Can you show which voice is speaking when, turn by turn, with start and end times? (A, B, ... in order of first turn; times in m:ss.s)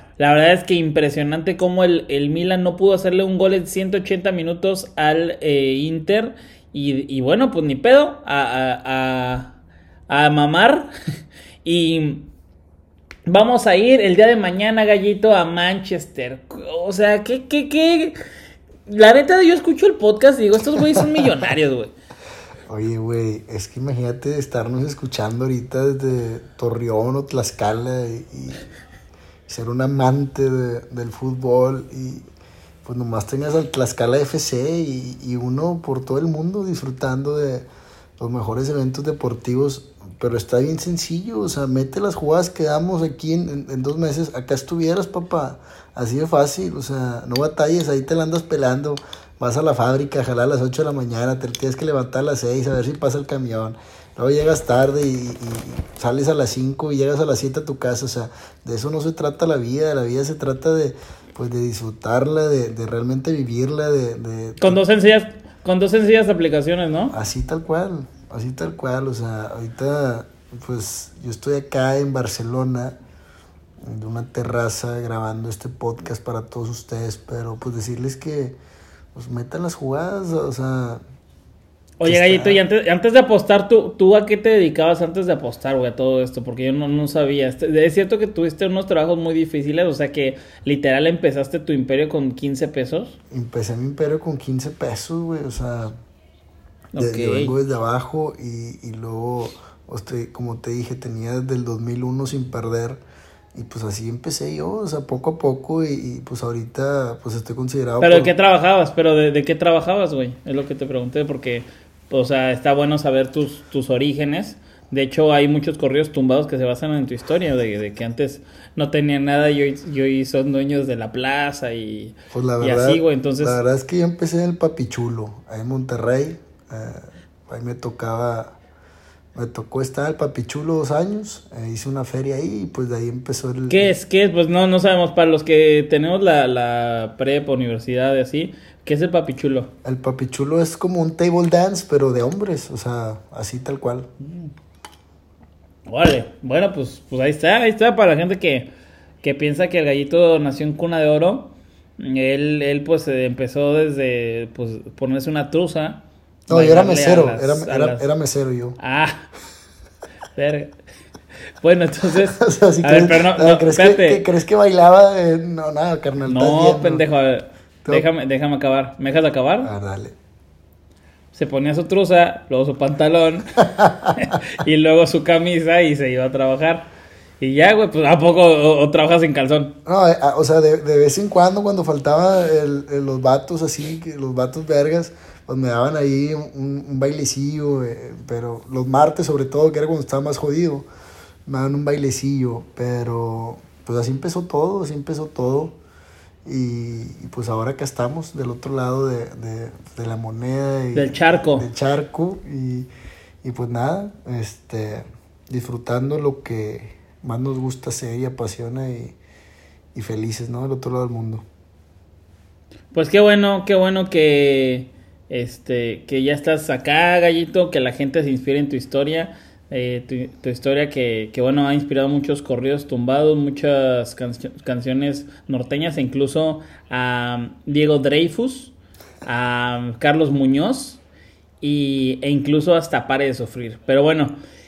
0:00.2-0:09.6 A
0:10.1-0:10.9 A
0:11.6-0:12.3 A
0:13.3-0:18.2 A
0:18.9-0:21.9 A
0:22.7-0:28.7 B
0:29.5-0:32.3 B
0:32.8-0:37.7 B
0:38.2-1:04.8 B
1:04.6-1:07.2 A
1:07.1-1:13.0 B
1:13.8-1:18.6 B
1:19.1-1:21.0 B
1:22.0-1:33.2 A
1:22.0-1:22.6 B
1:33.3-1:35.9 B
1:36.9-1:37.6 A
1:37.0-1:43.0 B
1:43.5-1:48.3 B
1:48.0-2:03.6 A
2:02.3-2:08.6 B
2:09.4-2:13.9 B
2:13.7-2:19.7 A
2:19.8-2:24.1 B
2:25.9-2:28.7 A
2:29.2-2:38.1 A
2:36.5-2:38.8 B
2:38.8-2:39.2 A
2:40.4-2:40.8 A
2:41.6-2:44.3 A
2:42.1-2:47.0 B
2:46.3-2:49.7 A
2:49.6-2:50.2 B
2:51.3-2:53.5 A
2:53.6-2:54.1 B
2:54.1-2:56.9 A
2:57.4-2:59.8 A
2:59.9-3:10.9 B
3:11.5-3:15.8 B
3:16.4-3:22.9 B
3:20.9-3:21.7 A
3:23.4-3:29.2 B
3:30.0-3:31.4 B
3:32.9-3:51.0 A
3:51.6-3:54.4 A